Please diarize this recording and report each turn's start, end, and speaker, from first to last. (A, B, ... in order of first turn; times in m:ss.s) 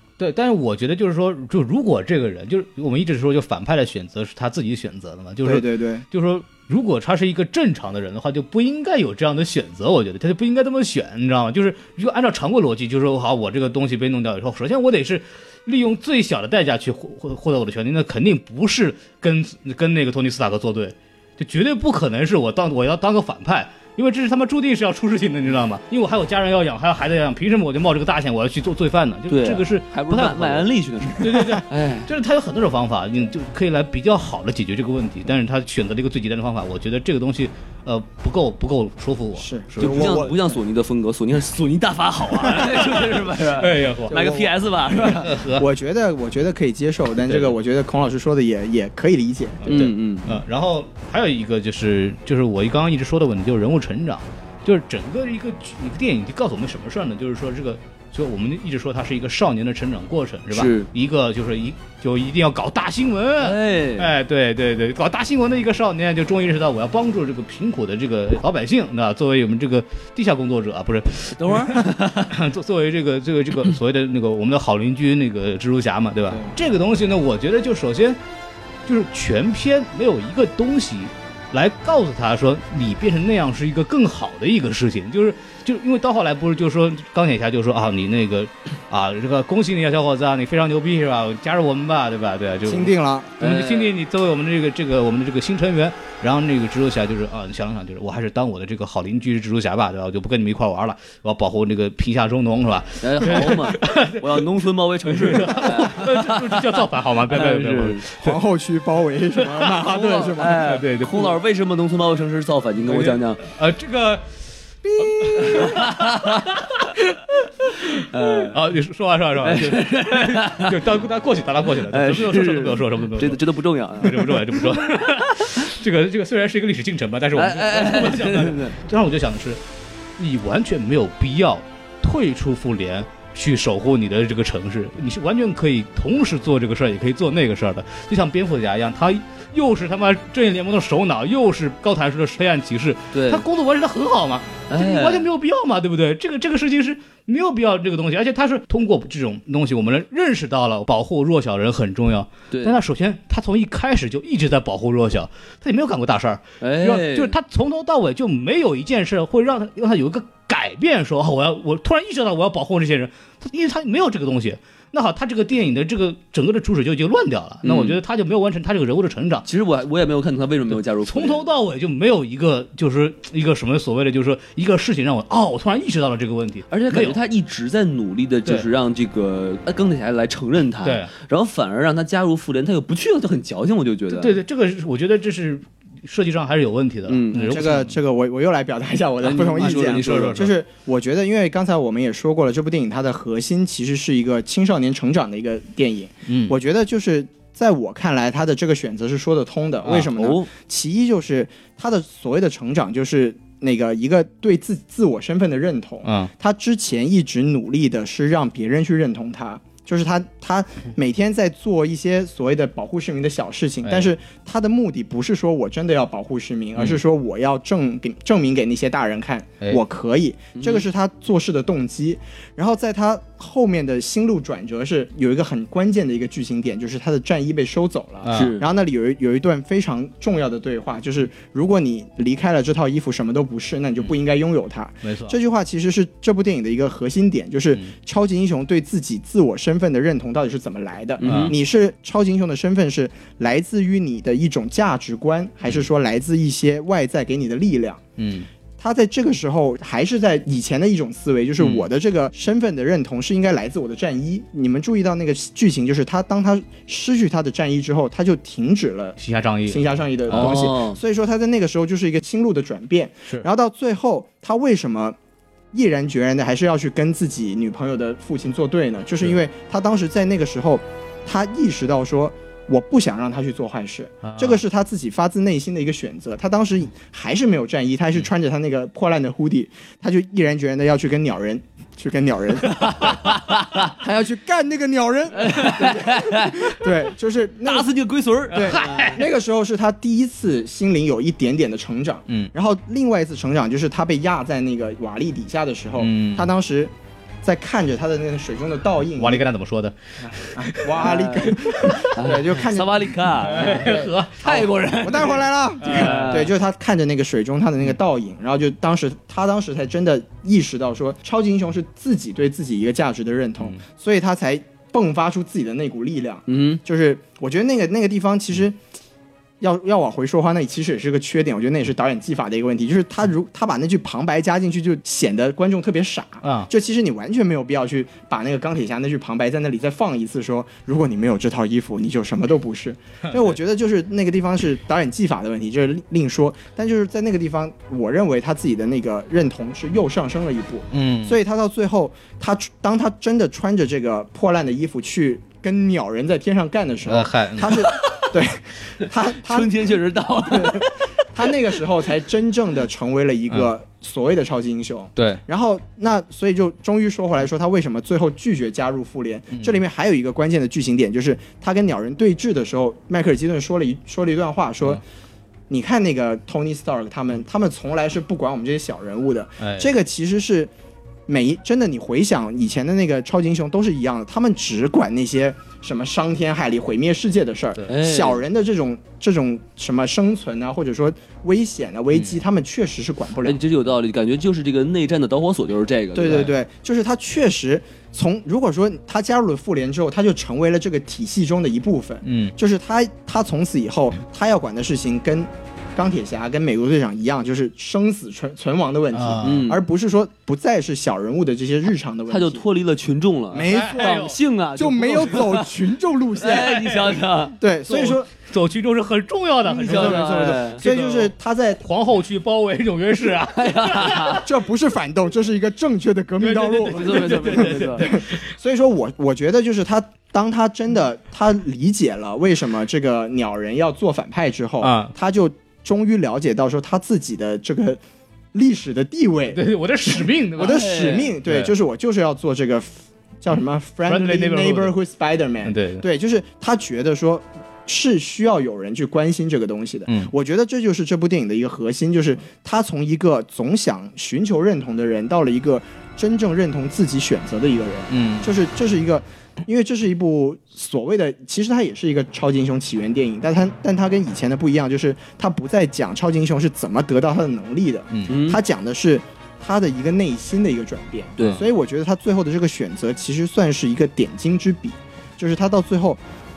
0:00.2-0:40.2 A
0:05.4-0:06.0 B
0:29.3-0:32.1 C
0:39.4-0:40.4 B
0:39.8-0:45.3 C
0:42.6-0:44.4 A
0:44.1-0:44.4 B
0:45.0-0:45.6 A
0:45.5-0:49.8 B
0:49.6-1:18.2 A
0:49.7-0:50.4 C
1:00.5-1:00.9 C
1:03.4-1:04.1 C
1:11.3-1:12.3 C
1:18.8-1:44.5 A
1:32.6-1:33.4 B
1:33.4-1:33.9 C
1:43.0-1:48.1 C
1:45.2-1:48.4 A
1:48.2-1:50.6 B
1:49.8-1:53.4 C
1:50.5-1:51.4 A
1:52.9-1:54.2 A
1:55.0-1:55.4 B
1:55.0-1:57.2 A
1:55.3-1:56.5 C
1:57.8-2:03.4 A
1:58.0-1:58.6 C
1:59.4-2:00.8 C
2:01.9-2:05.6 C
2:04.0-2:09.6 A
2:07.3-2:08.8 C
2:10.2-2:49.4 A
2:23.1-2:23.4 C
2:24.7-2:25.2 C
2:32.5-2:32.8 C
2:36.6-2:37.3 C
2:47.6-2:48.0 C
2:49.4-2:51.5 C
2:50.8-2:57.2 A
2:56.7-3:04.4 C
3:00.8-3:01.1 A
3:04.1-3:08.0 A
3:07.1-3:07.6 C
3:07.4-4:08.0 B
3:09.2-3:10.4 C
3:09.4-3:10.5 A
3:16.3-3:16.5 A
3:19.8-3:20.1 A
3:20.1-3:20.5 C
3:26.0-3:26.3 A
3:33.8-3:34.1 A
3:40.5-3:40.8 C
3:48.2-3:48.5 A
3:48.3-3:48.6 C
3:55.0-3:55.4 A
4:01.2-4:01.5 C
4:01.2-4:01.5 A
4:08.2-4:08.5 A
4:08.8-4:19.2 B
4:11.6-4:11.9 A
4:19.2-4:20.6 A
4:19.7-4:25.2 B
4:20.3-4:21.0 C
4:25.7-4:43.1 B
4:34.2-4:34.6 A
4:42.8-4:43.9 C
4:44.0-4:47.9 B
4:45.3-4:46.8 C
4:47.6-4:49.2 C
4:48.5-4:59.4 B
4:48.5-4:49.2 A
4:56.0-4:56.5 A
4:59.2-5:01.1 A
5:00.5-5:04.0 B
5:01.0-5:01.6 C
5:01.7-5:02.1 A
5:02.1-5:06.5 C
5:03.4-5:04.7 A
5:04.5-5:18.8 B
5:05.8-5:06.4 A
5:16.5-5:16.8 C
5:19.6-5:49.7 B
5:26.4-5:26.7 A
5:40.9-5:41.4 A
5:47.1-5:47.9 A
5:48.0-5:48.3 C
5:49.3-5:51.1 C
5:50.5-6:05.0 B
5:59.5-5:59.8 A
6:05.7-6:10.7 B
6:09.6-6:09.9 A
6:11.3-6:23.6 B
6:17.9-6:18.4 C
6:22.1-6:22.4 A
6:23.4-6:26.5 C
6:26.1-6:42.6 B
6:32.2-6:32.5 A
6:39.1-6:39.7 A
6:39.4-6:39.8 C
6:42.3-6:45.7 C
6:43.5-6:46.8 B
6:43.5-6:44.4 A
6:46.4-6:47.6 C
6:46.5-6:47.2 A
6:47.6-6:48.3 B
6:47.8-6:54.5 A
6:49.6-6:50.8 C
6:49.9-6:51.8 B
6:53.5-6:54.4 C
6:54.4-7:08.0 B
6:56.4-6:58.4 A
6:56.9-6:58.1 C
7:04.8-7:05.1 A
7:08.5-7:46.2 B
7:09.5-7:10.9 A
7:10.6-7:11.4 C
7:11.4-7:11.7 A
7:14.0-7:14.9 A
7:15.6-7:16.0 A
7:28.1-7:28.5 A
7:38.3-7:38.6 C